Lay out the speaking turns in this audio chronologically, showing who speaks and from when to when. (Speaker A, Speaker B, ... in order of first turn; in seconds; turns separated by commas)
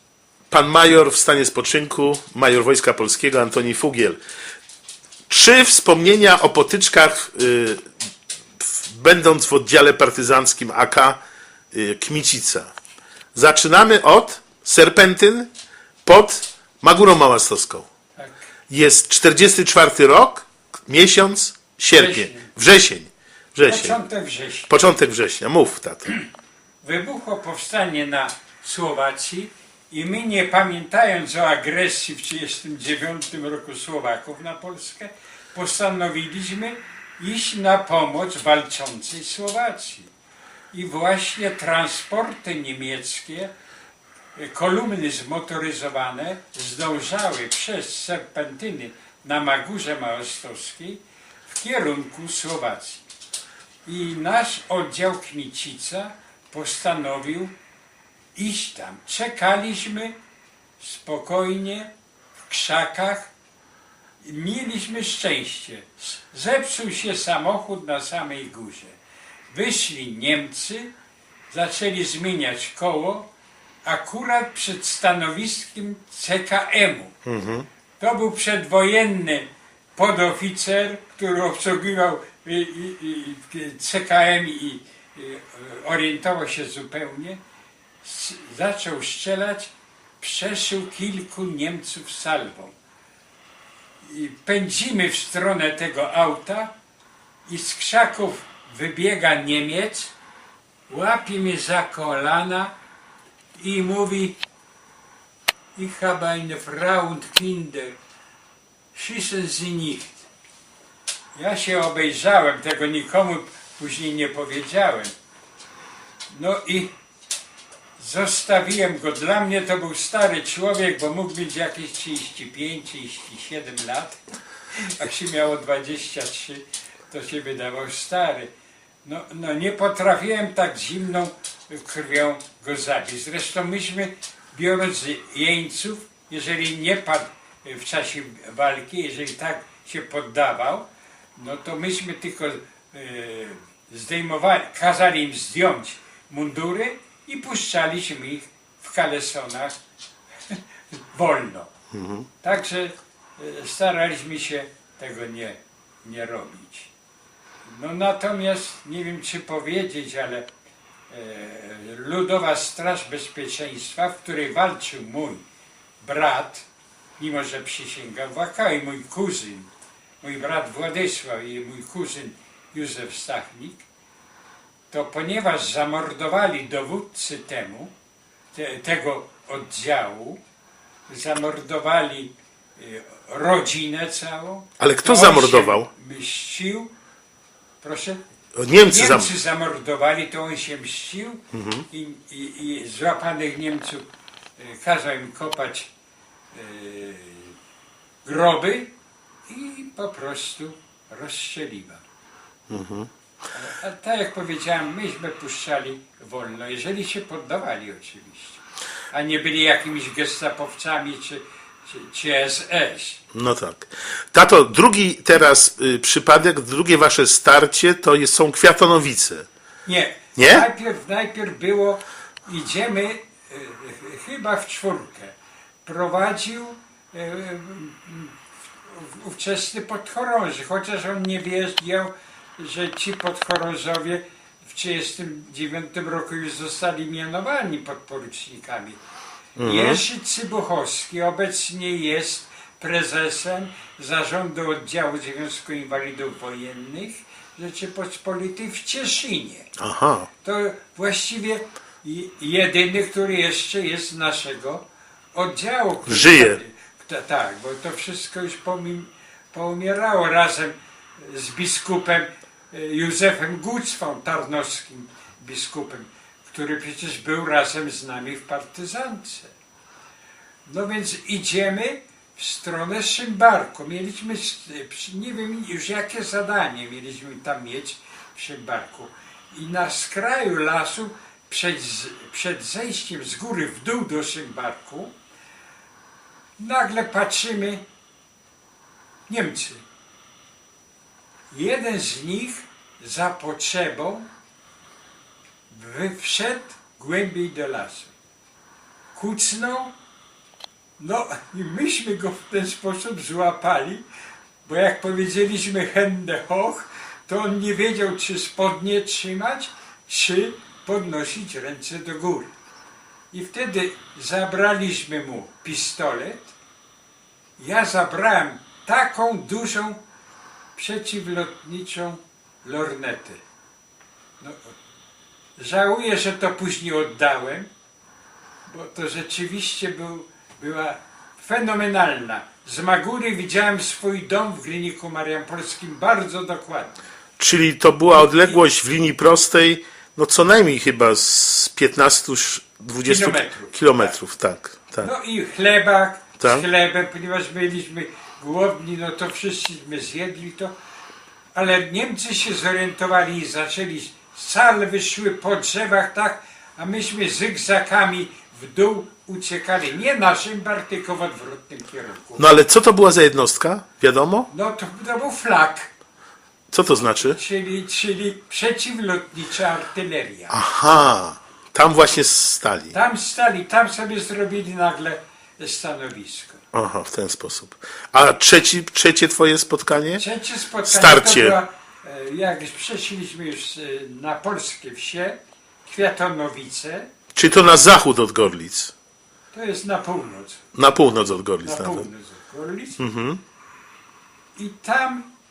Speaker A: 0.5-4.2, Speaker A: 5.3-7.9, Speaker A: 8.6-11.2, Speaker A: 11.7-12.7, Speaker A: 13.3-15.5, Speaker A: 16.1-17.9, Speaker B: 18.2-18.5, Speaker A: 18.7-24.0, Speaker B: 21.9-22.5, Speaker B: 23.6-24.7, Speaker A: 24.7-26.1, Speaker B: 26.8-40.1, Speaker B: 40.7-43.5, Speaker B: 44.4-53.1, Speaker B: 53.9-57.5, Speaker B: 58.4-60.2, Speaker B: 60.8-61.9, Speaker B: 62.5-63.3, Speaker B: 64.2-69.0, Speaker B: 69.5-70.9, Speaker B: 71.5-73.3, Speaker B: 73.8-77.1, Speaker A: 77.2-77.7, Speaker B: 78.0-87.4, Speaker B: 88.0-92.8, Speaker B: 94.0-96.7, Speaker B: 97.5-100.1, Speaker B: 100.9-102.8, Speaker B: 103.5-104.4, Speaker B: 105.8-108.0, Speaker B: 108.9-110.3, Speaker B: 111.3-115.1, Speaker B: 116.3-116.9, Speaker B: 118.0-124.2, Speaker B: 124.7-128.5, Speaker B: 129.0-149.8, Speaker B: 150.5-151.7, Speaker A: 151.9-152.3, Speaker B: 152.4-156.9, Speaker B: 157.7-160.5, Speaker B: 161.1-165.5, Speaker B: 166.0-173.9, Speaker B: 174.9-177.9, Speaker B: 178.5-180.4, Speaker B: 181.1-186.9, Speaker A: 184.8-185.9, Speaker B: 187.8-188.2, Speaker A: 188.6-189.3, Speaker B: 188.8-194.1, Speaker A: 191.5-191.9, Speaker B: 194.6-195.9, Speaker B: 196.5-197.6, Speaker B: 198.2-198.9, Speaker B: 199.5-202.0, Speaker A: 202.7-203.1, Speaker B: 203.5-213.2, Speaker A: 213.3-219.5, Speaker B: 219.8-239.0, Speaker A: 220.4-220.7, Speaker A: 239.6-240.0, Speaker B: 239.6-249.7, Speaker A: 249.8-250.3, Speaker B: 250.4-269.5, Speaker A: 256.1-256.6, Speaker B: 270.7-285.2, Speaker B: 286.6-287.9, Speaker B: 289.3-289.8, Speaker B: 291.5-294.3, Speaker B: 295.7-298.1, Speaker B: 299.1-300.0, Speaker B: 301.0-304.1, Speaker B: 304.6-312.5, Speaker B: 313.3-316.5, Speaker B: 317.6-320.0, Speaker B: 320.8-323.4, Speaker B: 324.4-324.7, Speaker B: 325.6-327.7, Speaker B: 328.7-337.0, Speaker A: 337.4-345.1, Speaker B: 338.1-338.6, Speaker B: 343.1-344.1, Speaker B: 345.0-350.7, Speaker A: 346.4-346.6, Speaker B: 351.6-362.5, Speaker A: 362.4-364.5, Speaker B: 364.5-365.9, Speaker A: 366.7-367.4, Speaker B: 367.2-370.6, Speaker A: 370.5-372.9, Speaker B: 372.9-376.6, Speaker A: 376.7-380.2, Speaker B: 380.1-387.1, Speaker A: 380.9-381.6, Speaker A: 387.4-388.9, Speaker B: 389.5-390.6, Speaker A: 390.8-392.1, Speaker B: 391.6-393.0, Speaker A: 393.0-393.4, Speaker B: 394.6-395.3